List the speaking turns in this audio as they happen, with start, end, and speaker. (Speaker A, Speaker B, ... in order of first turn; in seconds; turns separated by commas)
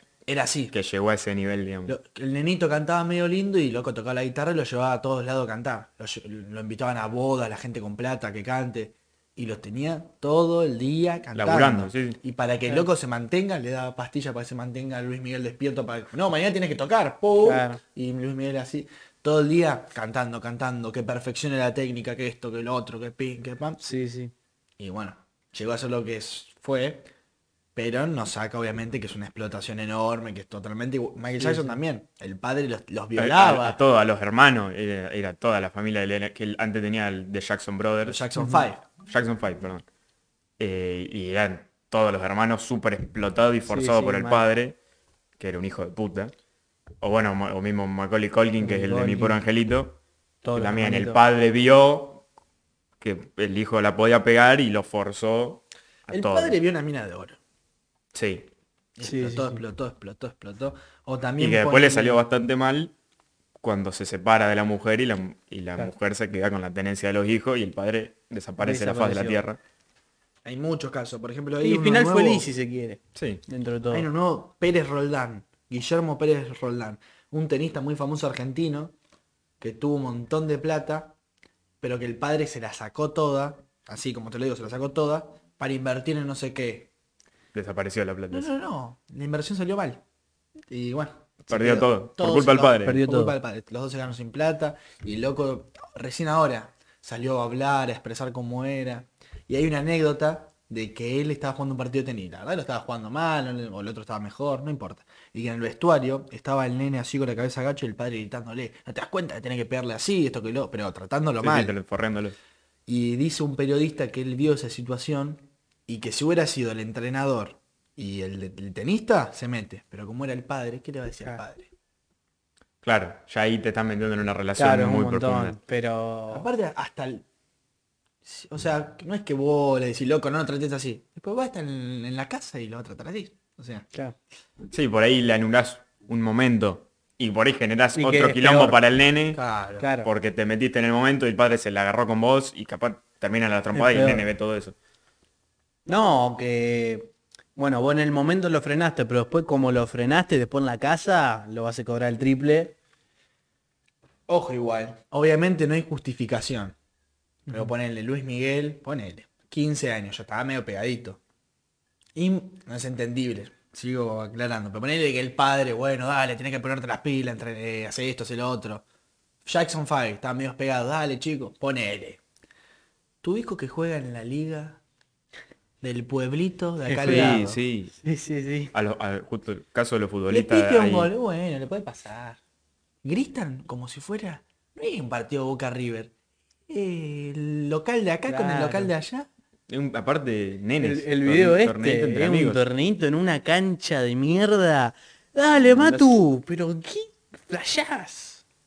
Speaker A: 0.2-0.7, Speaker B: 0.7-1.9, Speaker A: 1.9-23.8, Speaker B: 11.3-12.2, Speaker C: 17.4-17.8, Speaker C: 23.8-24.3, Speaker A: 24.8-27.1, Speaker A: 27.7-33.8, Speaker C: 31.4-31.8, Speaker B: 33.1-38.2, Speaker A: 38.0-38.8, Speaker C: 38.4-38.6, Speaker B: 39.0-39.8, Speaker B: 40.6-44.8, Speaker C: 43.6-44.5, Speaker B: 45.4-46.3, Speaker B: 47.0-50.0, Speaker C: 48.6-49.4, Speaker C: 50.4-51.2, Speaker B: 50.5-52.2, Speaker B: 53.0-56.5, Speaker A: 56.1-57.4, Speaker B: 58.1-58.5, Speaker A: 59.0-62.2, Speaker C: 59.0-59.6, Speaker B: 61.4-62.9, Speaker B: 63.6-69.6, Speaker C: 68.6-69.4, Speaker A: 70.4-72.5, Speaker C: 71.6-74.1, Speaker B: 73.2-73.4, Speaker A: 73.9-78.9, Speaker A: 79.6-81.2, Speaker A: 81.8-86.9, Speaker B: 87.5-88.5, Speaker A: 88.3-90.0, Speaker A: 90.7-111.7, Speaker B: 91.5-93.0, Speaker C: 92.8-93.3, Speaker B: 111.4-112.3, Speaker A: 112.9-121.7, Speaker B: 122.8-125.6, Speaker C: 124.6-126.5, Speaker A: 126.3-127.2, Speaker A: 128.2-133.8, Speaker B: 134.7-139.4, Speaker C: 137.9-138.8, Speaker A: 139.3-139.9, Speaker C: 139.8-140.1, Speaker B: 140.0-144.8, Speaker C: 143.7-144.3, Speaker C: 145.9-152.7, Speaker A: 154.3-156.8, Speaker A: 157.5-161.2, Speaker A: 162.2-168.8, Speaker A: 169.4-172.2, Speaker A: 173.2-174.8, Speaker A: 175.8-177.6, Speaker C: 176.8-177.4, Speaker B: 177.0-177.9, Speaker C: 177.9-178.7, Speaker B: 178.7-181.1, Speaker A: 180.3-182.4, Speaker A: 183.0-186.1, Speaker A: 186.7-189.3, Speaker C: 188.3-188.9, Speaker B: 189.7-192.6, Speaker C: 190.8-198.4, Speaker B: 195.6-196.2